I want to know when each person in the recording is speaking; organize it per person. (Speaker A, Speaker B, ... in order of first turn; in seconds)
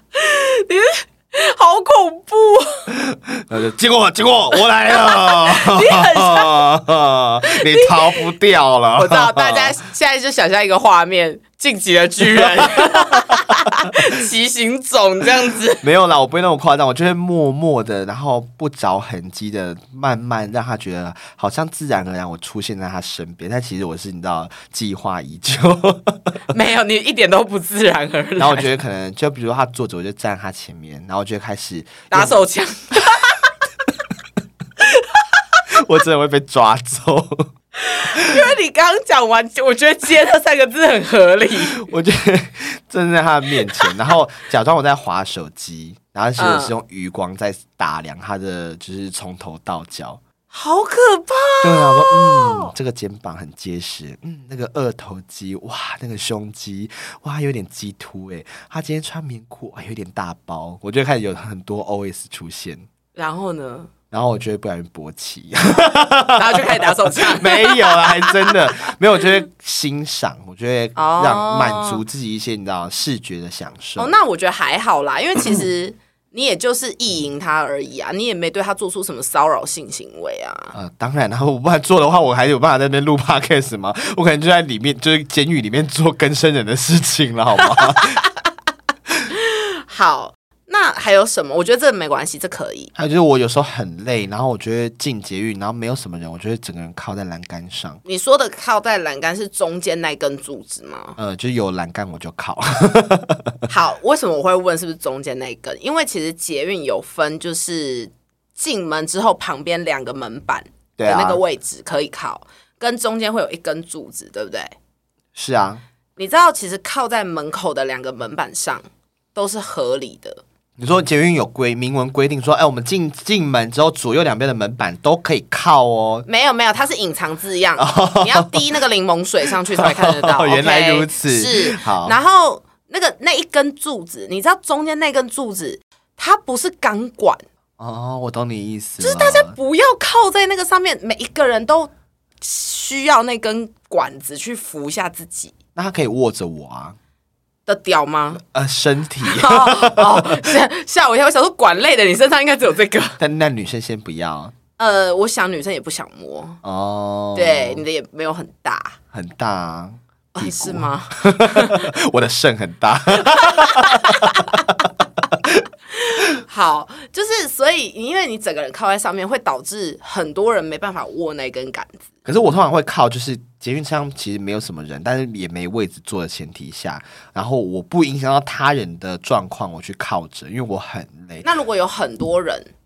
Speaker A: 0.1-2.9, 4.9-6.6, 7.4-8.2, 9.0-15.8, 26.5-28.7, 32.1-33.5, 34.8-35.6, 37.8-41.8, 46.4-46.7, 50.5-52.7, 63.1-63.9, 66.3-68.5, 71.0-72.0, 74.0-80.7, 87.6-88.5, 89.3-92.9, 98.0-101.2, 103.7-114.7, 116.2-118.8, 119.3-120.4, 126.2-137.4, 139.0-145.5, 147.7-148.4, 149.2-153.2, 154.8-156.6, 157.3-159.0, 160.3-161.9, 163.3-164.4, 165.9-172.0, 181.4-182.7
Speaker B: 2.9-9.8, 12.2-14.0, 15.8-26.4, 28.4-32.4, 35.7-37.5, 41.8-50.2, 51.6-62.9, 64.1-74.1, 80.7-88.2, 93.0-98.0, 101.2-103.5, 111.0-111.4, 115.3-115.8, 120.8-126.2, 127.8-128.6, 129.7-132.2, 137.8-139.6, 145.7-147.0, 148.4-150.5, 153.2-154.5, 156.6-157.8, 159.1-165.6, 172.2-181.5